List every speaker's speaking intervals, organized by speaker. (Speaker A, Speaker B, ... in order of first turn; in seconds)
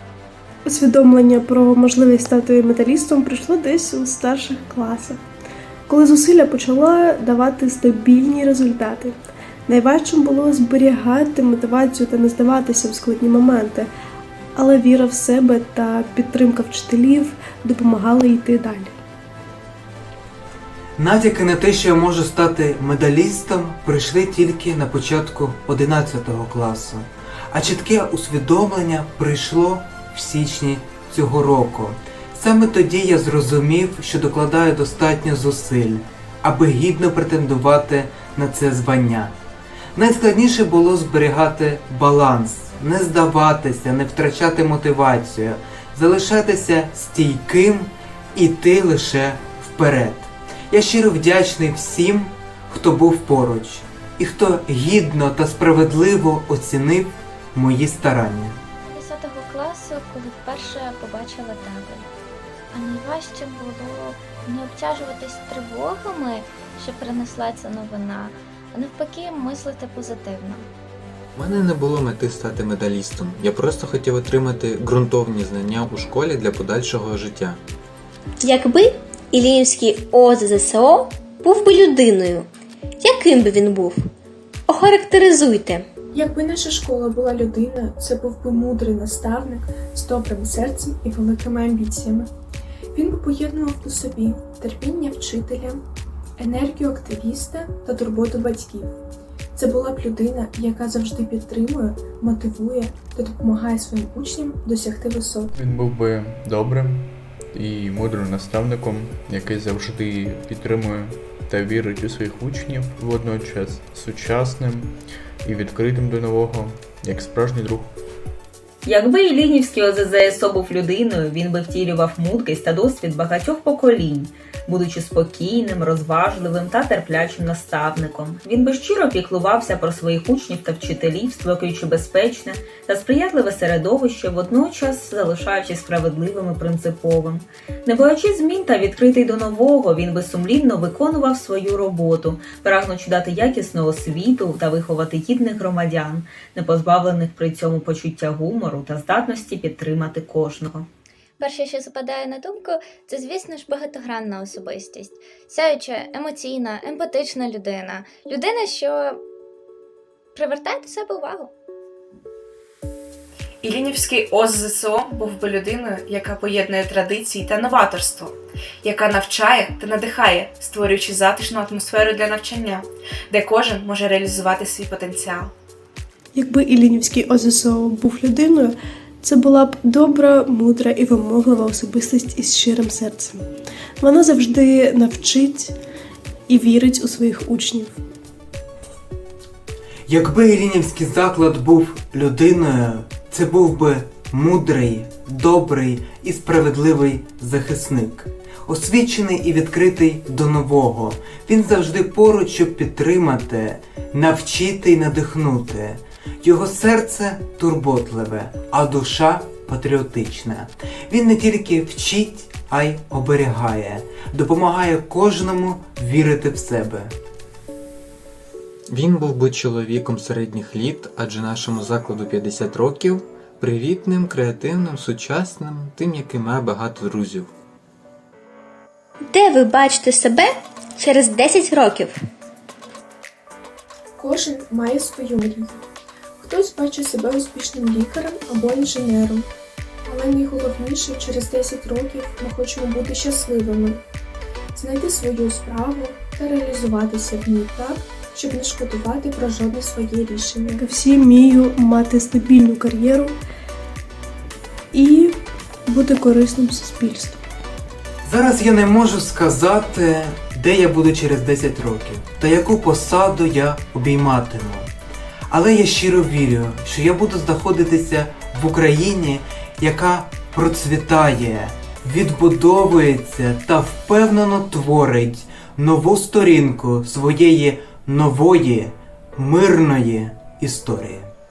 Speaker A: 0.6-5.2, 5.9-13.9, 14.6-19.0, 176.3-185.7, 186.5-188.0, 250.8-253.3, 254.9-257.4
Speaker B: 21.0-39.3, 39.9-58.6, 190.1-217.1, 258.2-264.9, 265.5-281.3
Speaker C: 58.8-62.1, 62.7-70.7, 151.4-159.2, 160.3-161.5
Speaker D: 71.3-77.6, 218.9-227.5
Speaker E: 78.4-82.5, 83.0-84.0, 84.7-85.9, 229.3-232.1
Speaker F: 86.1-92.3, 92.9-95.8, 96.4-98.9, 99.5-105.5, 234.2-235.8, 236.4-239.5, 240.0-244.0, 244.7-250.8
Speaker G: 105.5-114.9, 115.4-117.9
Speaker H: 118.8-150.9
Speaker I: 163.6-175.5